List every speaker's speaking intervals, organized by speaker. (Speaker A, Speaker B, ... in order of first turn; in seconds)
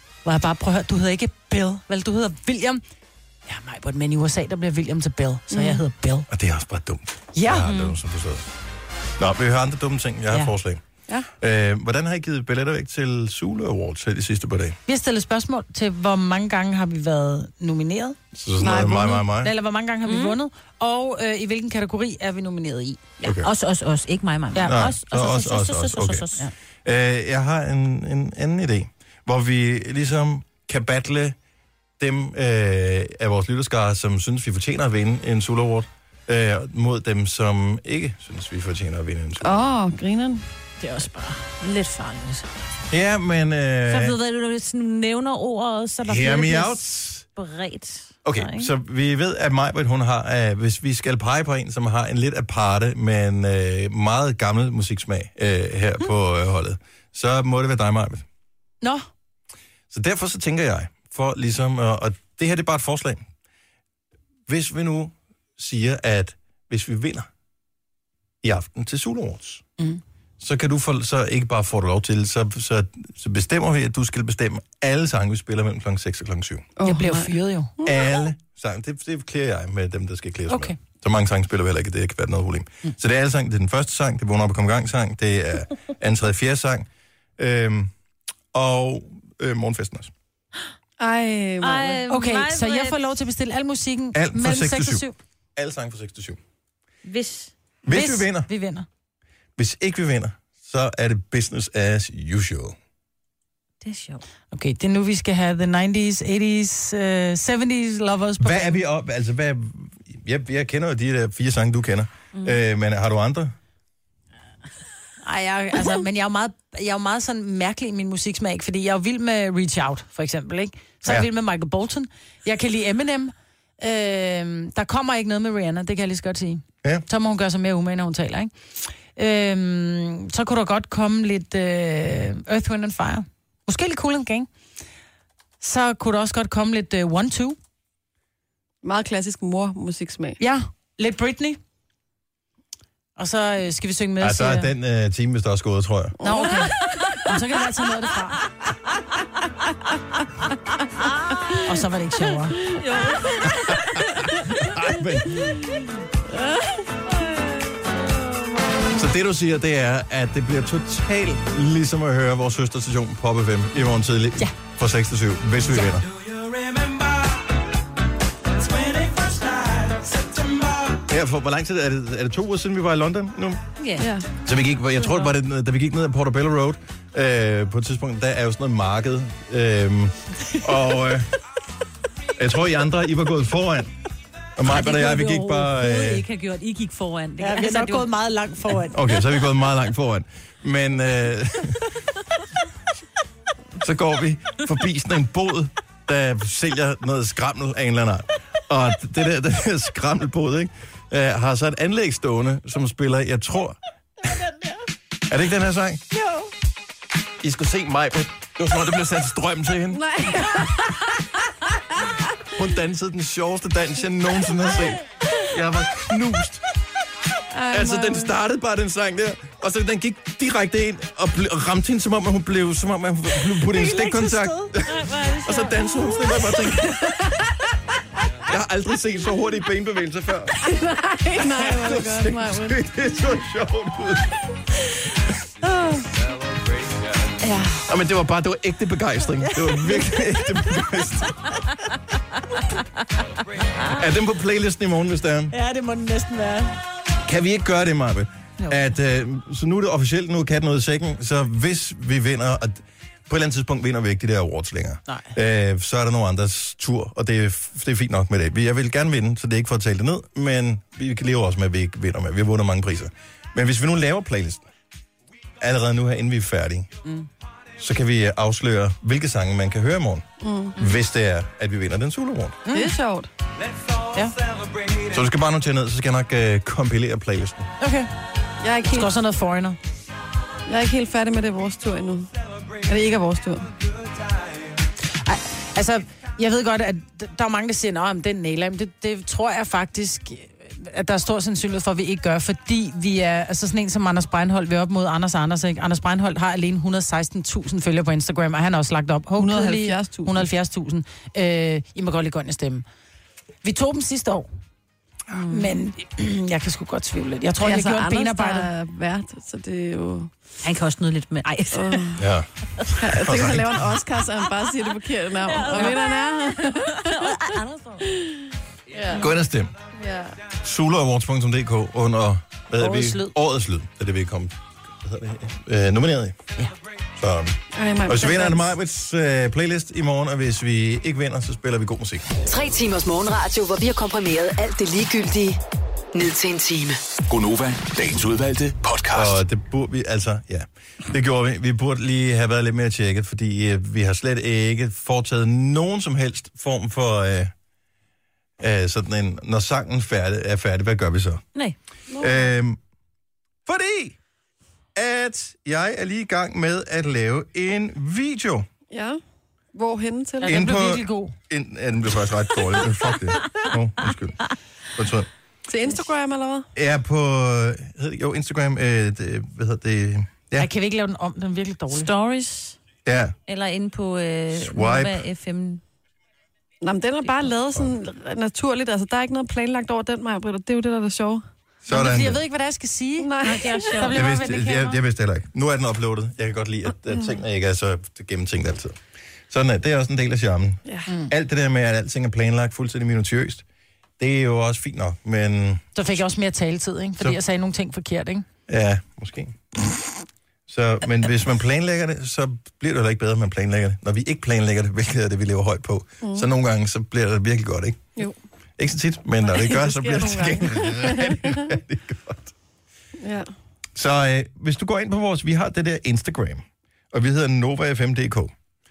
Speaker A: 0.2-2.8, 3.5-6.3, 7.3-7.8, 14.9-23.0, 24.5-24.9, 76.8-77.7, 80.5-80.8, 92.1-95.2, 97.9-98.9, 104.5-108.8, 115.2-128.5, 129.1-134.5, 135.6-137.6, 140.4-141.6, 143.2-144.7, 146.2-148.4, 151.6-152.6, 166.2-167.0, 168.6-170.9, 184.6-185.7, 187.4-189.1, 206.2-206.5, 223.3-224.8, 235.6-236.0, 237.4-237.7, 239.4-240.8, 245.5-246.8, 272.6-273.0, 274.1-274.5, 277.8-278.1, 278.9-279.8, 285.1-302.8, 303.6-304.5, 305.4-308.7, 315.7-316.0, 322.8-323.3, 360.4-361.4, 370.6-372.1, 381.9-385.0, 395.9-398.4
Speaker B: 6.3-8.5, 9.2-10.8, 11.4-14.8, 18.3-19.5, 23.2-23.5, 24.6-26.2, 26.8-31.4, 32.0-39.7, 42.9-44.1, 46.0-47.2, 48.2-58.2, 59.9-63.2, 64.5-67.3, 68.4-69.6, 70.4-76.7, 77.8-86.9, 87.4-87.9, 88.5-90.1, 94.1-96.4, 97.8-98.5, 99.6-102.7, 108.4-113.5, 144.2-146.2, 153.7-155.6, 158.9-166.1, 171.0-173.6, 174.4-181.3, 182.4-183.9, 184.6-186.2, 188.9-191.8, 193.8-203.8, 205.3-206.0, 207.4-210.0, 212.5-216.6, 217.7-226.9, 228.4-230.6, 231.6-234.4, 237.8-241.5, 243.9-245.5, 247.2-264.7, 265.6-266.9, 267.8-270.2, 270.8-272.6, 275.0-277.7, 312.2-312.5, 313.1-313.8, 319.2-319.7, 320.6-326.5, 327.2-332.3, 339.1-347.5, 348.6-351.4, 352.2-352.8, 353.6-354.1, 354.9-358.7, 360.5-365.3, 366.8-370.7, 373.1-373.3, 374.5-375.2, 381.8-382.4, 384.1-389.0, 389.5-393.6, 394.2-395.9, 398.7-399.6, 400.7-408.1, 408.8-412.5, 413.9-418.5
Speaker C: 7.6-7.9, 20.0-20.4, 23.2-26.5, 40.8-42.5, 43.9-48.7, 91.6-93.0, 97.0-97.5, 103.8-104.2, 152.8-154.0, 157.1-157.9, 173.8-174.1, 184.8-188.1, 224.8-226.3, 305.3-305.7, 310.6-312.2, 315.4-318.1, 371.9-372.8, 373.5-375.8, 383.4-384.2
Speaker D: 18.6-19.1, 39.4-40.4, 76.8-78.1, 91.0-92.0, 138.8-140.4, 146.2-147.1, 174.0-174.3, 209.9-211.2, 217.5-218.3, 230.6-232.8, 270.4-270.8, 272.7-273.3, 278.6-279.1, 280.7-282.3, 282.8-283.7, 299.4-300.4, 307.6-310.3, 311.7-312.2, 312.9-317.5, 318.0-319.2, 319.9-320.4, 327.7-328.7, 352.1-352.5, 358.9-359.2, 359.7-360.6, 365.7-366.7, 376.8-381.4, 383.2-384.1, 409.5-411.8, 413.2-413.5
Speaker E: 332.4-335.6, 336.1-337.0
Speaker F: 337.3-339.4